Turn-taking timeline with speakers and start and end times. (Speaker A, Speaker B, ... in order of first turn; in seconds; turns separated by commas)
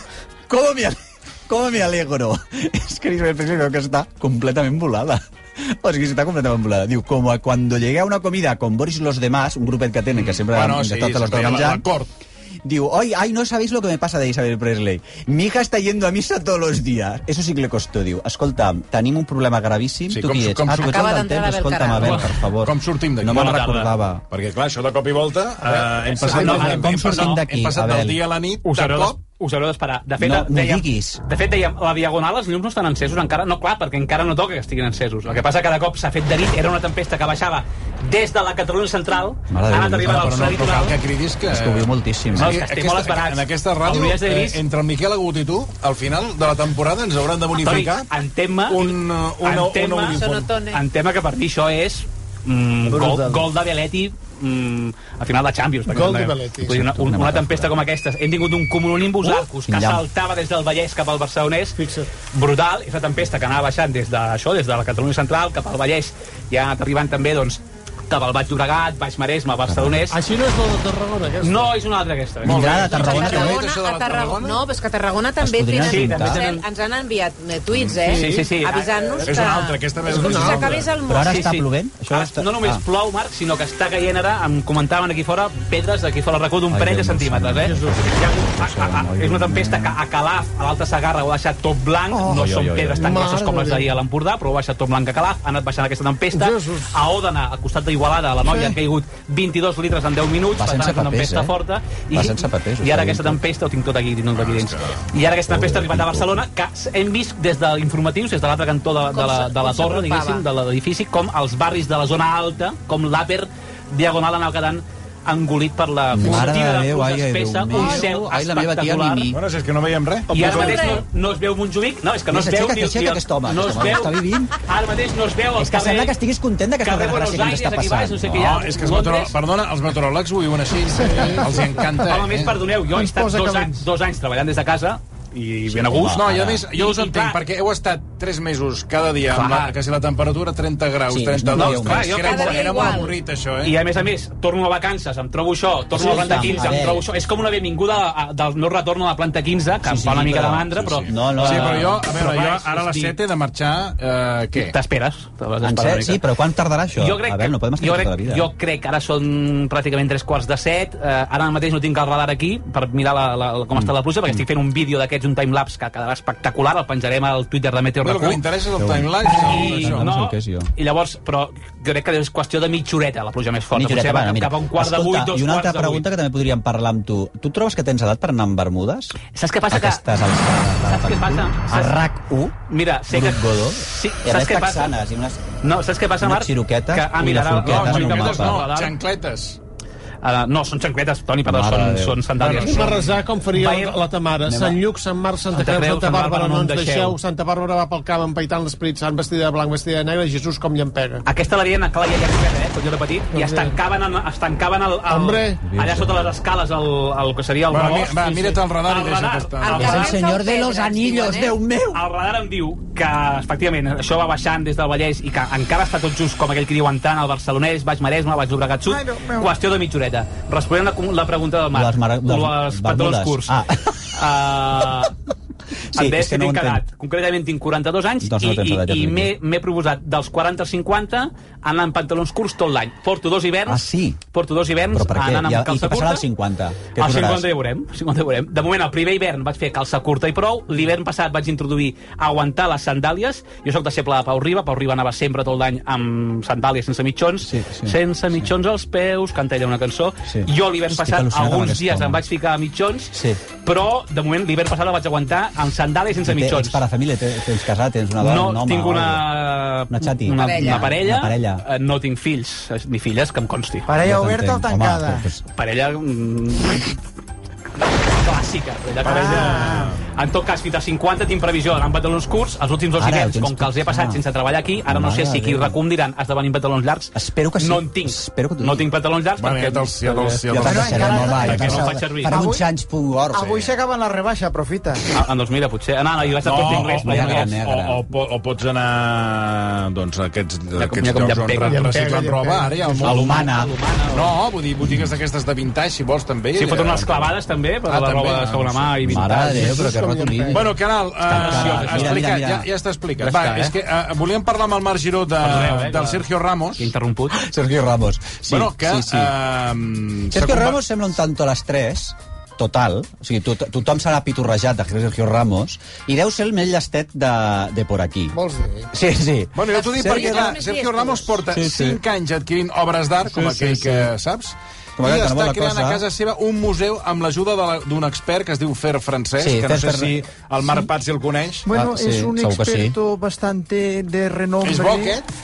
Speaker A: 0.5-11.8, Speaker B: 10.1-12.1, Speaker A: 12.6-24.2, Speaker B: 20.1-21.0, Speaker C: 20.7-22.2, Speaker B: 22.0-23.7, Speaker D: 23.3-23.9, Speaker B: 24.3-29.2, Speaker E: 26.2-26.8, Speaker D: 26.2-27.4, Speaker A: 26.3-28.2, Speaker D: 28.6-41.0, Speaker A: 30.2-31.2, Speaker A: 39.5-40.4, Speaker B: 40.0-48.1, Speaker A: 41.5-42.5, Speaker D: 42.3-44.6, Speaker D: 47.5-50.2, Speaker B: 48.7-50.5, Speaker C: 50.0-50.8, Speaker D: 50.7-70.2, Speaker E: 55.9-56.8, Speaker A: 56.6-57.8, Speaker A: 59.2-60.0, Speaker E: 61.8-62.1, Speaker A: 69.7-70.0, Speaker E: 70.1-71.7, Speaker D: 71.4-73.5, Speaker B: 72.4-74.6, Speaker A: 72.4-73.5, Speaker C: 72.8-81.5, Speaker A: 75.4-76.4, Speaker D: 75.8-76.6, Speaker B: 77.8-78.5, Speaker E: 78.1-78.4, Speaker D: 78.2-78.9, Speaker B: 79.2-80.9, Speaker E: 80.1-80.8, Speaker A: 81.1-82.8, Speaker D: 81.2-119.3, Speaker A: 86.7-90.0, Speaker E: 87.6-88.1, Speaker A: 92.2-93.1, Speaker E: 93.0-93.9, Speaker E: 96.3-97.0, Speaker A: 100.5-101.5, Speaker A: 102.1-103.4, Speaker B: 104.3-105.0, Speaker A: 105.4-106.4, Speaker C: 109.1-110.4, Speaker A: 116.1-119.4, Speaker B: 119.3-121.0, Speaker D: 120.3-126.1, Speaker C: 120.5-121.0, Speaker A: 122.3-124.6, Speaker A: 125.6-128.4, Speaker D: 126.8-129.3, Speaker B: 128.3-132.6, Speaker D: 132.0-137.4, Speaker F: 132.9-133.6, Speaker A: 135.7-136.6, Speaker B: 136.0-143.8, Speaker D: 139.3-139.7, Speaker A: 141.1-142.1, Speaker D: 141.5-143.0, Speaker C: 142.2-143.1, Speaker D: 143.6-153.1, Speaker A: 145.9-147.0, Speaker B: 146.2-146.4, Speaker A: 149.8-151.9, Speaker B: 151.4-154.8, Speaker D: 154.5-156.2, Speaker A: 155.6-158.5, Speaker D: 156.9-168.4, Speaker A: 163.7-164.4, Speaker B: 168.0-170.1, Speaker A: 168.8-170.7, Speaker D: 169.3-176.1, Speaker A: 173.7-179.2, Speaker D: 179.3-180.0, Speaker A: 179.7-182.6, Speaker D: 180.8-182.0, Speaker D: 182.7-184.9, Speaker A: 183.1-185.5, Speaker D: 185.6-188.9, Speaker A: 186.2-188.6, Speaker B: 187.6-189.6, Speaker D: 190.2-194.0, Speaker A: 191.4-192.9, Speaker E: 192.4-201.2, Speaker A: 194.4-194.8, Speaker D: 195.5-197.2, Speaker D: 201.2-210.0, Speaker E: 203.3-203.8, Speaker E: 205.1-205.6, Speaker A: 205.6-206.3, Speaker B: 207.7-210.1, Speaker C: 209.6-211.5, Speaker A: 209.8-212.0, Speaker D: 211.9-223.5, Speaker F: 218.8-219.5, Speaker A: 221.7-224.2, Speaker D: 224.1-225.1, Speaker A: 225.9-226.8, Speaker D: 225.9-236.2, Speaker A: 228.2-229.3, Speaker A: 233.7-234.2, Speaker A: 234.9-237.5, Speaker D: 236.9-256.8, Speaker A: 247.4-248.5, Speaker A: 250.3-252.2, Speaker A: 253.1-253.4, Speaker A: 256.2-261.6, Speaker D: 258.2-263.9, Speaker C: 260.4-260.9, Speaker F: 263.9-265.3, Speaker A: 264.0-265.4, Speaker D: 265.5-267.0, Speaker D: 268.1-280.0, Speaker B: 269.0-270.1, Speaker A: 273.0-274.2, Speaker A: 274.9-275.8, Speaker A: 277.1-278.9, Speaker B: 279.4-281.9, Speaker A: 280.1-283.6, Speaker F: 280.6-282.6, Speaker D: 281.0-282.4, Speaker F: 283.3-285.0, Speaker D: 285.1-287.5, Speaker B: 286.4-293.6, Speaker A: 286.5-288.0, Speaker D: 290.8-291.9, Speaker E: 291.7-293.2, Speaker D: 293.0-294.3, Speaker A: 293.0-293.7, Speaker B: 294.1-297.4, Speaker D: 296.5-299.9, Speaker B: 297.9-299.1, Speaker A: 299.0-300.7, Speaker E: 299.5-300.7, Speaker B: 300.5-306.9, Speaker A: 301.2-302.7, Speaker D: 301.3-302.2, Speaker A: 303.2-303.7, Speaker D: 303.3-303.6, Speaker D: 305.4-306.2, Speaker D: 306.8-307.4, Speaker A: 307.3-309.3, Speaker B: 308.4-310.8, Speaker A: 310.3-318.4, Speaker E: 318.3-318.9, Speaker A: 318.9-320.6, Speaker B: 319.5-331.7, Speaker C: 319.7-321.4, Speaker A: 321.5-322.0, Speaker A: 323.2-324.1, Speaker A: 325.0-326.0, Speaker A: 329.4-330.2, Speaker F: 331.6-335.2, Speaker A: 331.7-332.9, Speaker B: 334.6-335.2